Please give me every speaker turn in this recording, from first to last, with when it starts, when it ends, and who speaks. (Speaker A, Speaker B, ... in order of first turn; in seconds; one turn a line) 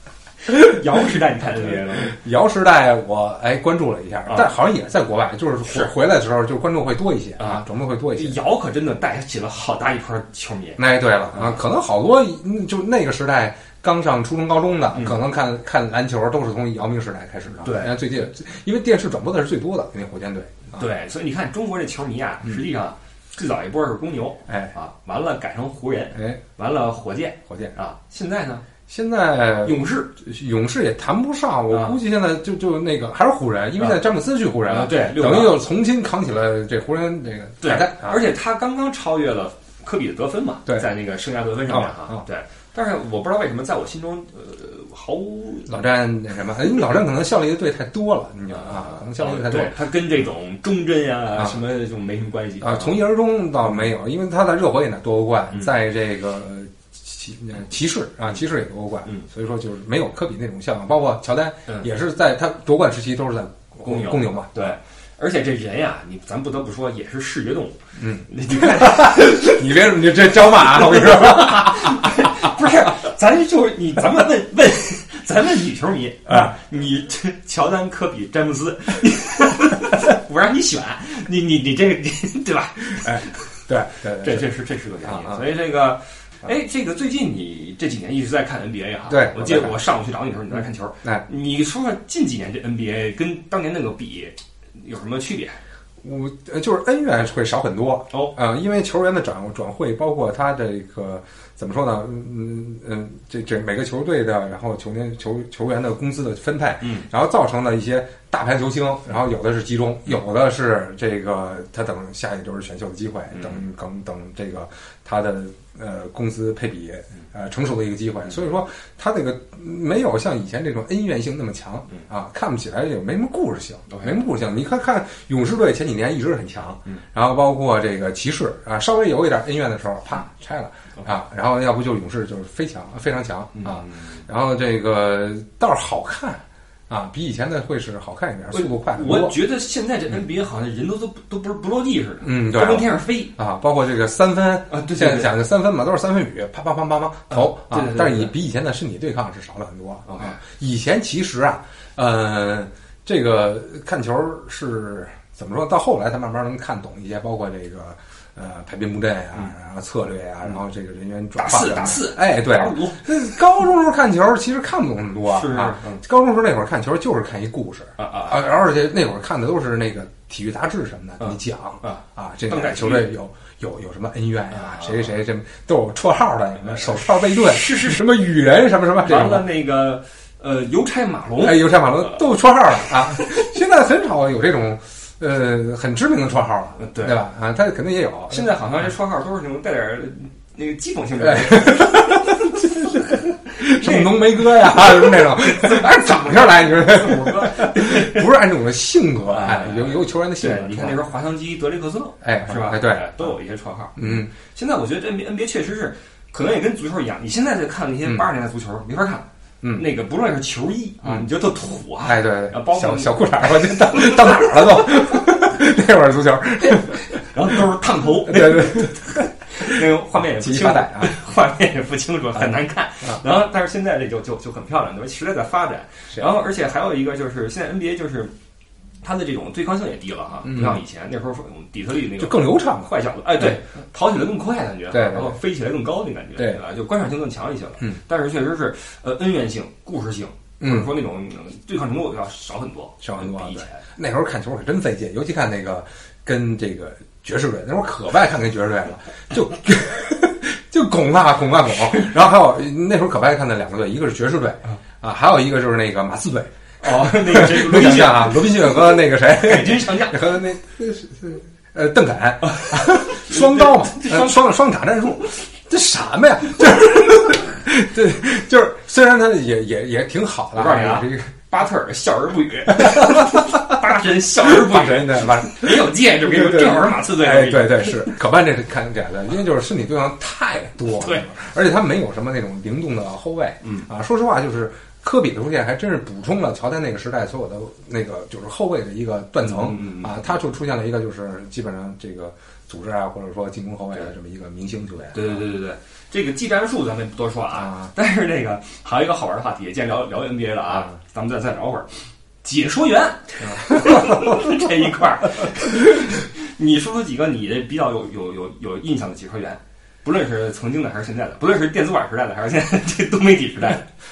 Speaker A: 0.5-2.1
Speaker B: 1.6-8.4
Speaker A: 7.4-11.6
Speaker B: 10.8-20.8
Speaker A: 14.9-15.2
Speaker A: 17.6-18.0
Speaker A: 20.7-28.6
Speaker B: 24.5-24.7
Speaker B: 27.5-27.7
Speaker B: 28.9-38.2
Speaker A: 29.6-30.1
Speaker A: 31.7-32.0
Speaker A: 34.6-35.6
Speaker A: 37.6-45.8
Speaker B: 41.7-42.2
Speaker B: 45.7-49.8
Speaker A: 48.5-53.0
Speaker B: 52.6-64.7
Speaker A: 63.8-69.6
Speaker B: 68.0-72.5
Speaker A: 70.3-83.5
Speaker B: 83.0-84.5
Speaker A: 84.1-95.6
Speaker B: 85.0-85.4
Speaker B: 89.1-89.8
Speaker B: 96.0-139.3
Speaker A: 106.8-107.1
Speaker A: 113.3-113.6
Speaker A: 123.9-124.2
Speaker A: 133.5-134.2
Speaker A: 138.5-143.3
Speaker B: 142.2-179.5
Speaker A: 144.7-145.3
Speaker A: 147.3-148.3
Speaker A: 150.1-150.4
Speaker A: 161.3-163.0
Speaker A: 165.3-166.0
Speaker A: 168.0-168.4
Speaker A: 171.2-173.1
Speaker A: 174.5-175.1
Speaker A: 176.7-178.1
Speaker A: 179.0-182.3
Speaker B: 181.4-188.5
Speaker A: 182.8-183.3
Speaker A: 186.8-187.2
Speaker A: 188.3-198.3
Speaker B: 191.2-201.0
Speaker A: 199.3-214.9
Speaker B: 202.2-203.3
Speaker B: 204.0-204.3
Speaker B: 209.6-209.9
Speaker B: 212.0-217.6
Speaker A: 217.2-228.3
Speaker B: 218.2-221.1
Speaker A: 229.0-243.8
Speaker B: 230.4-230.8
Speaker B: 232.2-233.6
Speaker B: 234.9-235.4
Speaker B: 240.6-240.9
Speaker B: 243.0-271.3
Speaker A: 256.8-260.2
Speaker A: 262.4-264.5
Speaker A: 270.5-278.1
Speaker B: 272.8-273.7
Speaker B: 274.4-295.4
Speaker A: 281.0-281.2
Speaker A: 283.6-283.9
Speaker A: 289.4-290.2
Speaker A: 295.1-313.9
Speaker B: 303.5-304.3